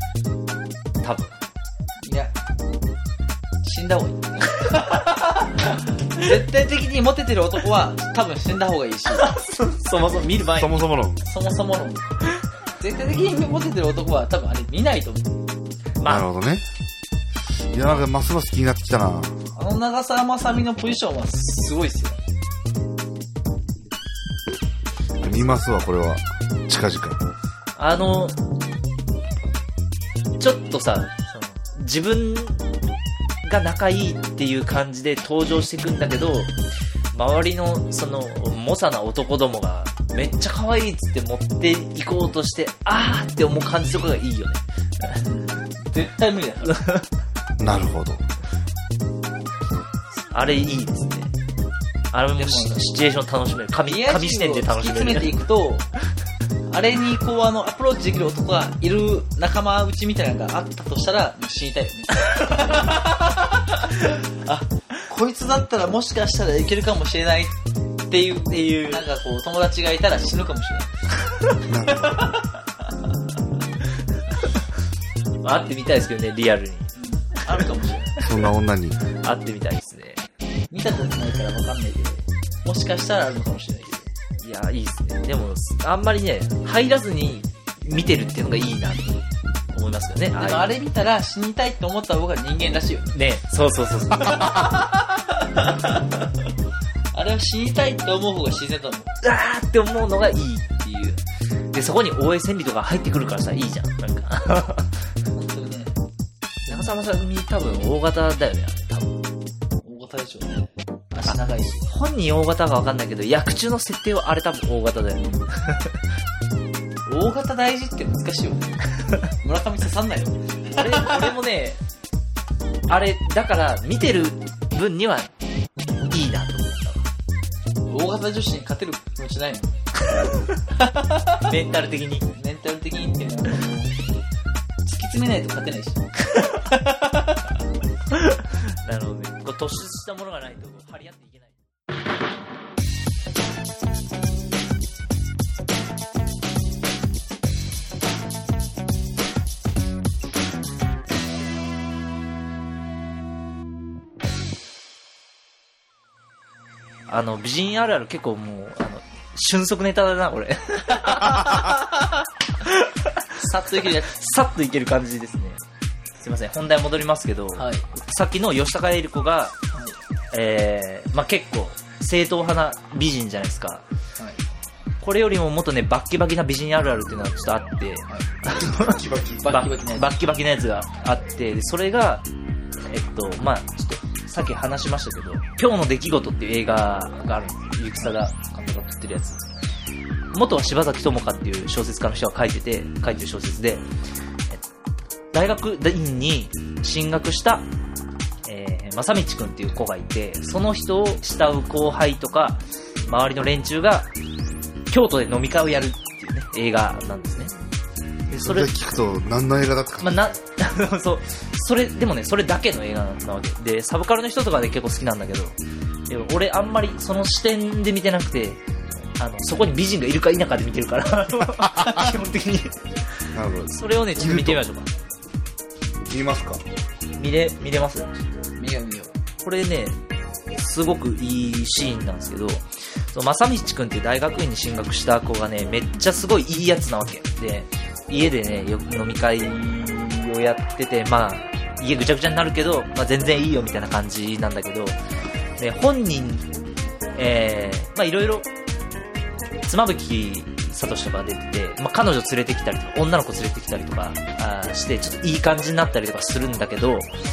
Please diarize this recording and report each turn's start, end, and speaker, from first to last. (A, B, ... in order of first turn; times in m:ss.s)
0:01.0-0:01.3 A
0:02.0-0:02.3 B
0:03.6-0:09.2 B
0:09.1-0:10.9 A
0:10.4-0:11.2 C
0:11.2-0:12.0 B
0:12.8-0:15.4 B
0:16.0-0:16.3 A
0:16.0-0:16.6 C
0:17.7-0:19.4 C
0:19.5-0:22.2 B
0:25.2-0:27.2 C
0:27.8-0:28.4 A
0:30.4-0:32.6 A
0:33.4-0:36.5 A
0:37.1-0:45.2 A
0:45.2-0:46.8 B
0:46.7-0:47.0 A
0:47.6-0:48.2 C
0:50.3-0:51.3 A
0:52.1-0:55.3 A
0:52.4-0:52.8 B
0:53.9-0:55.9 B
0:56.7-1:10.9 B
1:08.5-1:09.0 A
1:11.6-1:12.3 C
1:11.9-1:12.4 B
1:15.4-1:16.9 A
1:17.0-1:18.1 B
1:18.2-1:19.0 C
1:19.2-1:20.2 A
1:20.7-1:24.1 B
1:24.4-1:30.7 A
1:30.4-1:33.2 B
1:33.1-1:34.5 A
1:34.2-1:36.2 B
1:37.1-1:39.1 B
1:39.2-1:41.2 A
1:41.7-1:45.0 A
1:45.3-1:45.9 B
1:46.6-1:47.1 B
1:46.7-1:49.2 A
1:49.8-1:51.9 B
1:51.2-1:56.0 A
1:55.2-1:55.4 B
1:57.1-1:58.8 B
1:59.4-2:01.4 B
2:00.7-2:01.8 A
2:02.9-2:05.3 A
2:06.1-2:07.1 A
2:07.9-2:09.7 B
2:10.2-2:10.6 A
2:10.7-2:11.5 B
2:11.4-2:12.3 A
2:12.3-2:14.0 B
2:14.8-2:17.5 B
2:18.1-2:21.6 A
2:37.1-2:41.8 A
2:41.1-2:41.9 B
2:42.6-2:43.2 A
2:43.4-2:44.1 B
2:43.8-2:45.6 A
2:46.2-2:49.5 A
2:47.6-2:47.8 B
2:50.3-2:53.8 A
2:55.0-3:02.2 A
2:58.5-2:59.5 C
2:59.4-3:00.1 B
3:02.9-3:09.4 A
3:10.3-3:13.8 A
3:15.3-3:17.6 A
3:18.4-3:24.1 A
3:24.9-3:27.5 A
3:28.3-3:28.7 A
3:28.3-3:30.4 C
3:30.0-3:35.6 A
3:36.1-3:38.6 A
3:39.1-3:42.8 A
3:43.3-3:44.6 C
3:43.7-3:44.9 A
3:46.1-3:46.6 C
3:47.2-3:48.2 A
3:48.6-3:49.1 B
3:49.4-3:50.0 A
3:50.5-4:05.0 A
4:05.6-4:06.5 A
4:07.1-4:08.5 A
4:09.6-4:17.1 A